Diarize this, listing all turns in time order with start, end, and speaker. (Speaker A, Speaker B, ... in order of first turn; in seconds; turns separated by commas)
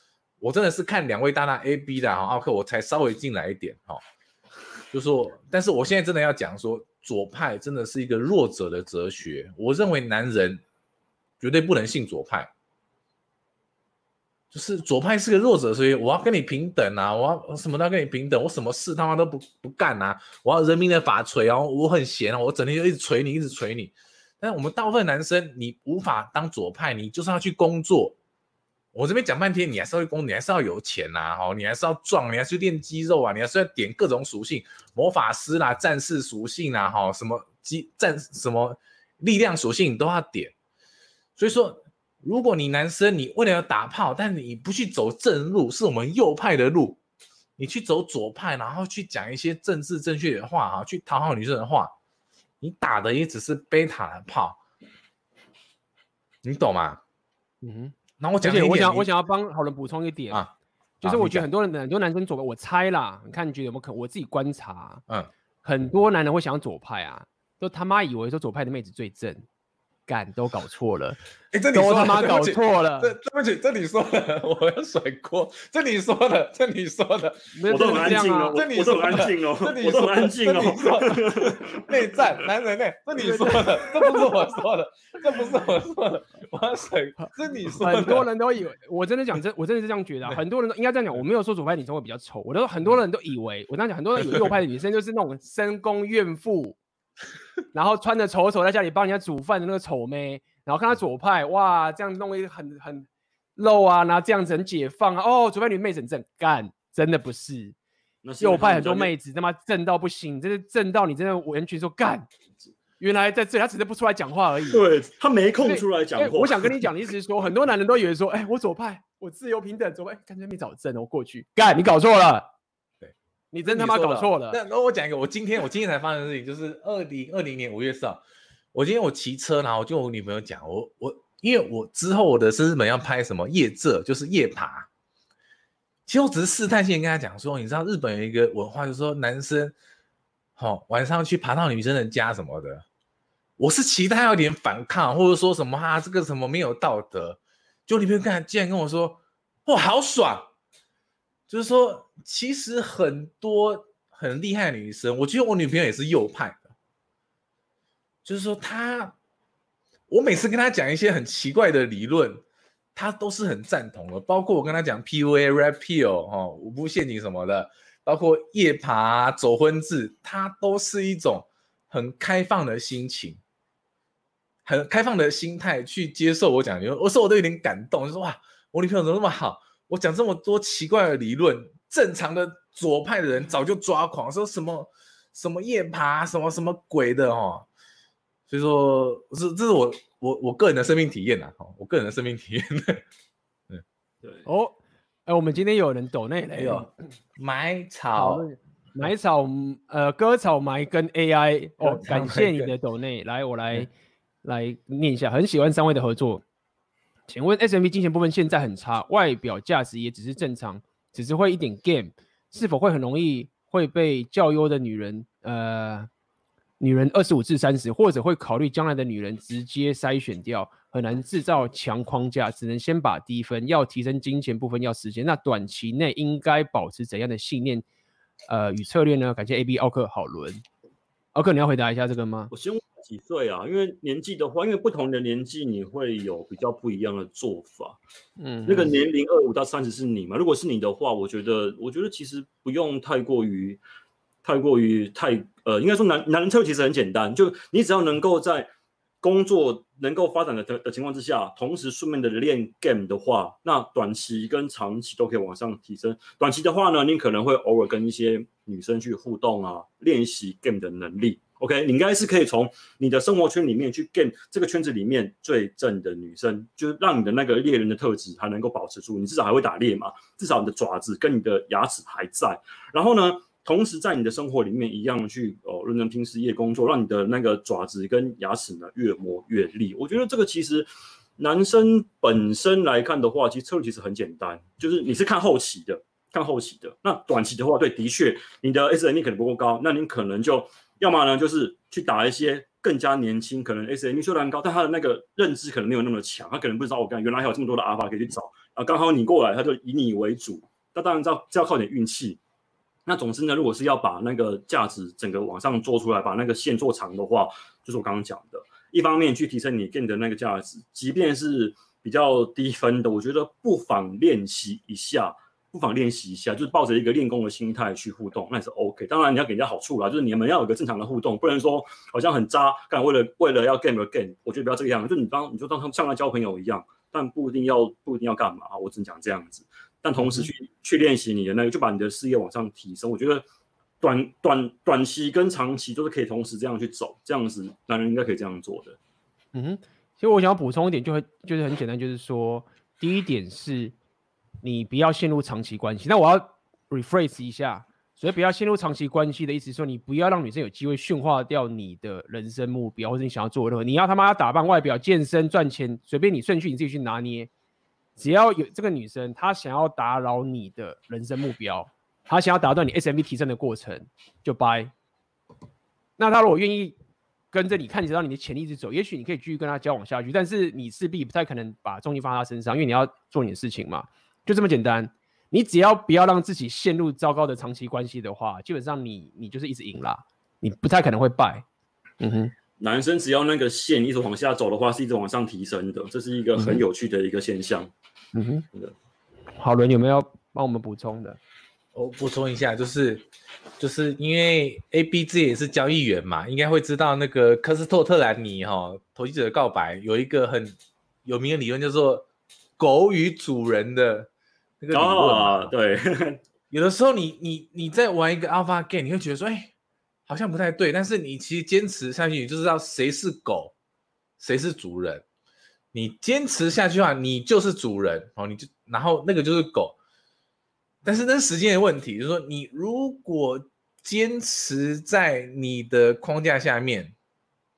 Speaker A: 0.4-4.0, Speaker A: 4.9-10.6, Speaker A: 11.4-12.5, Speaker A: 14.5-28.1, Speaker A: 28.9-40.5, Speaker A: 41.4-47.0, Speaker A: 47.6-51.9, Speaker A: 52.6-54.6, Speaker A: 56.4-57.0, Speaker B: 57.6-60.4, Speaker A: 58.2-59.1, Speaker B: 61.0-65.0, Speaker A: 61.0-61.4, Speaker B: 65.6-69.4, Speaker B: 70.1-71.2, Speaker A: 71.5-88.3, Speaker B: 71.7-73.1, Speaker B: 77.5-78.6, Speaker C: 77.7-81.9, Speaker B: 83.2-84.3, Speaker B: 87.2-96.8, Speaker B: 97.7-107.8, Speaker C: 108.2-109.1, Speaker B: 108.4-112.2, Speaker B: 113.0-114.8, Speaker C: 114.6-116.9, Speaker B: 115.6-122.5, Speaker A: 123.0-128.2, Speaker B: 123.5-124.6, Speaker A: 128.7-134.9, Speaker A: 136.1-139.7, Speaker A: 140.6-142.8, Speaker A: 143.6-150.5, Speaker A: 151.5-156.7, Speaker A: 158.2-159.1, Speaker A: 160.1-162.4, Speaker A: 162.9-173.4, Speaker A: 174.6-187.7, Speaker A: 188.5-193.0, Speaker B: 194.4-196.9, Speaker A: 196.5-198.5, Speaker B: 198.1-203.9, Speaker A: 201.8-202.7, Speaker B: 204.4-206.4, Speaker B: 207.3-216.1, Speaker B: 216.8-227.8, Speaker B: 228.5-230.6, Speaker B: 231.3-232.5, Speaker C: 232.5-238.0, Speaker B: 238.4-238.9, Speaker C: 238.7-243.8, Speaker C: 244.4-248.7, Speaker C: 249.2-302.4, Speaker C: 303.1-333.4, Speaker B: 330.2-330.5, Speaker C: 334.0-339.0, Speaker B: 339.5-343.9, Speaker B: 344.6-357.5, Speaker B: 358.2-364.9, Speaker B: 366.2-367.0, Speaker B: 367.5-381.6, Speaker B: 382.2-382.5, Speaker C: 382.8-387.9, Speaker B: 386.6-386.8, Speaker B: 388.3-388.6, Speaker B: 389.6-391.4, Speaker A: 391.9-393.2, Speaker A: 393.8-402.2, Speaker A: 402.8-404.3, Speaker A: 404.8-405.7, Speaker C: 404.9-406.4, Speaker A: 406.7-409.7, Speaker A: 410.3-413.7, Speaker A: 414.4-415.2, Speaker A: 415.9-419.9, Speaker A: 421.0-427.1